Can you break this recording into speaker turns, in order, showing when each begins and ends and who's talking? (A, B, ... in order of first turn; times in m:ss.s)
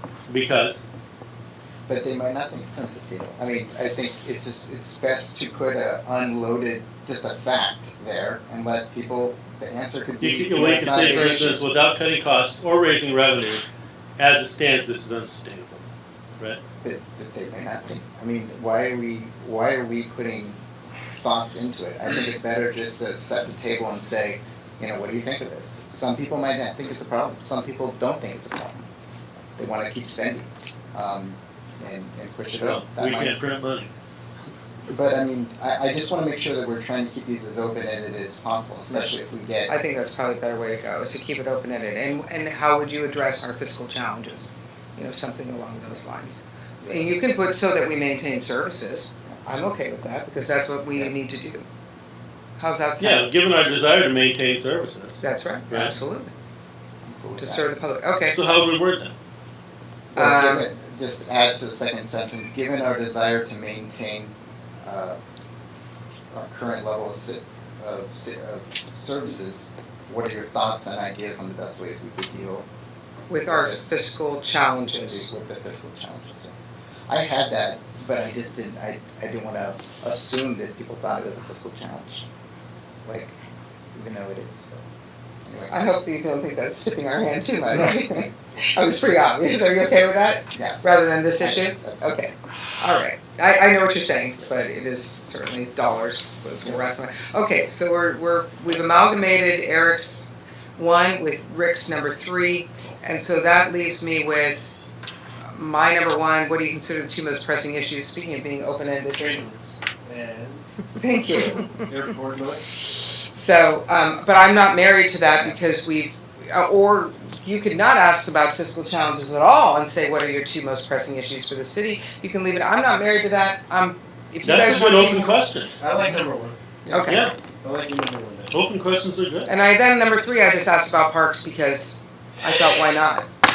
0:00.3-0:00.9 A
0:01.9-0:11.6 B
0:10.2-0:15.8 A
0:16.8-0:20.6 B
0:21.2-0:28.9 B
0:29.6-0:33.4 B
0:32.6-0:33.9 A
0:34.9-0:39.7 B
0:39.7-0:51.6 C
0:52.6-0:53.3 C
0:53.0-0:55.9 A
0:55.2-0:56.3 C
0:57.0-0:57.6 B
0:57.4-0:58.4 C
0:58.3-0:59.1 A
1:00.1-1:05.2 B
1:00.1-1:00.7 C
1:06.3-1:12.7 B
1:13.3-1:15.3 C
1:13.4-1:13.9 B
1:14.7-1:16.6 B
1:17.1-1:22.3 B
1:23.0-1:23.4 B
1:23.9-1:24.9 B
1:25.4-1:25.8 B
1:25.7-1:44.8 C
1:27.7-1:28.1 B
1:30.5-1:32.2 B
1:45.4-1:49.4 C
1:49.1-1:50.7 D
1:51.0-1:51.8 C
1:51.7-1:52.6 D
1:52.7-2:05.3 C
2:04.4-2:05.8 A
2:05.8-2:06.6 D
2:06.8-2:07.2 B
2:06.9-2:07.3 C
2:07.1-2:07.3 A
2:07.6-2:08.6 D
2:08.5-2:09.5 A
2:09.5-2:13.3 C